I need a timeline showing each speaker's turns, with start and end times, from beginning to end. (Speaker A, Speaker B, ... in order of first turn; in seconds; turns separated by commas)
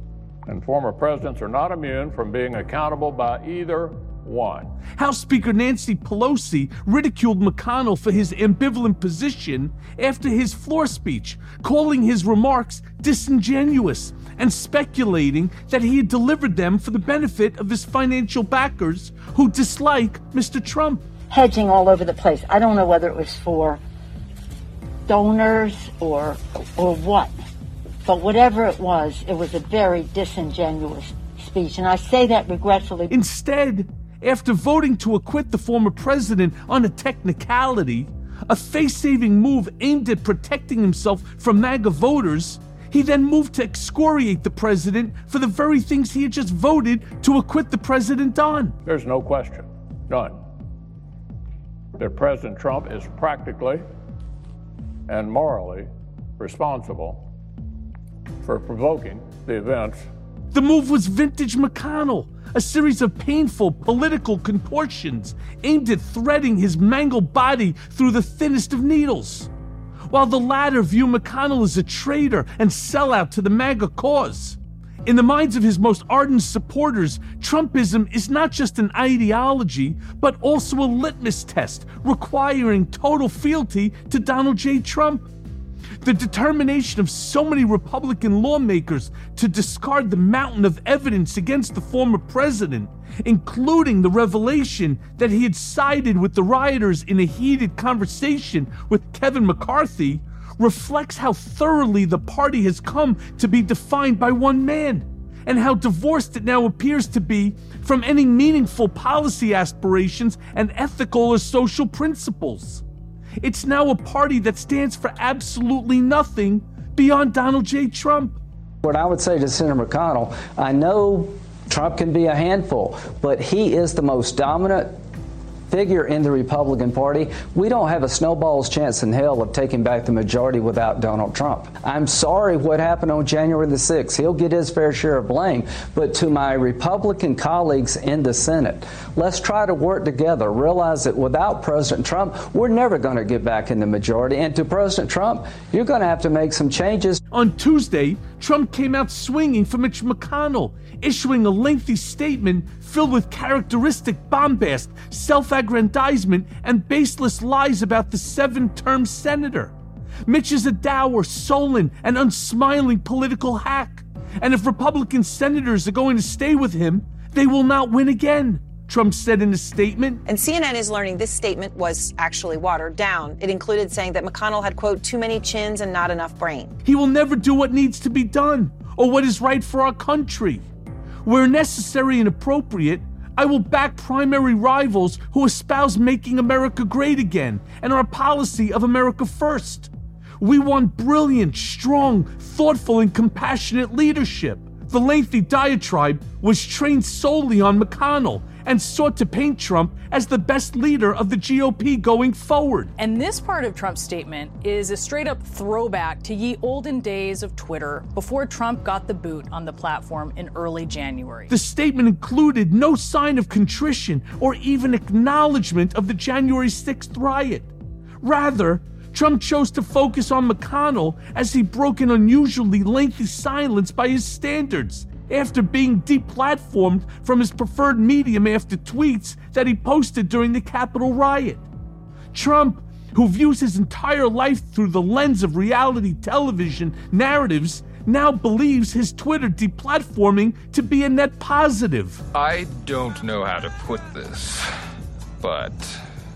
Speaker A: 0.5-4.8, Speaker B: 5.0-21.1, Speaker C: 21.3-23.8, Speaker C: 25.1-27.3, Speaker C: 28.1-33.1, Speaker B: 33.1-48.8, Speaker A: 48.8-50.4, Speaker A: 52.0-53.9, Speaker A: 55.1-57.3, Speaker A: 58.4-60.1, Speaker B: 60.5-69.5, Speaker B: 70.1-85.3, Speaker B: 86.0-112.8, Speaker B: 113.4-118.4, Speaker D: 118.8-125.0, Speaker D: 125.7-147.2, Speaker B: 147.3-159.8, Speaker B: 160.3-170.2, Speaker E: 170.3-176.8, Speaker B: 176.8-180.7, Speaker B: 181.2-202.9, Speaker F: 203.0-211.5, Speaker B: 211.5-231.7, Speaker B: 232.3-242.2, Speaker G: 242.3-244.8, Speaker G: 245.4-246.0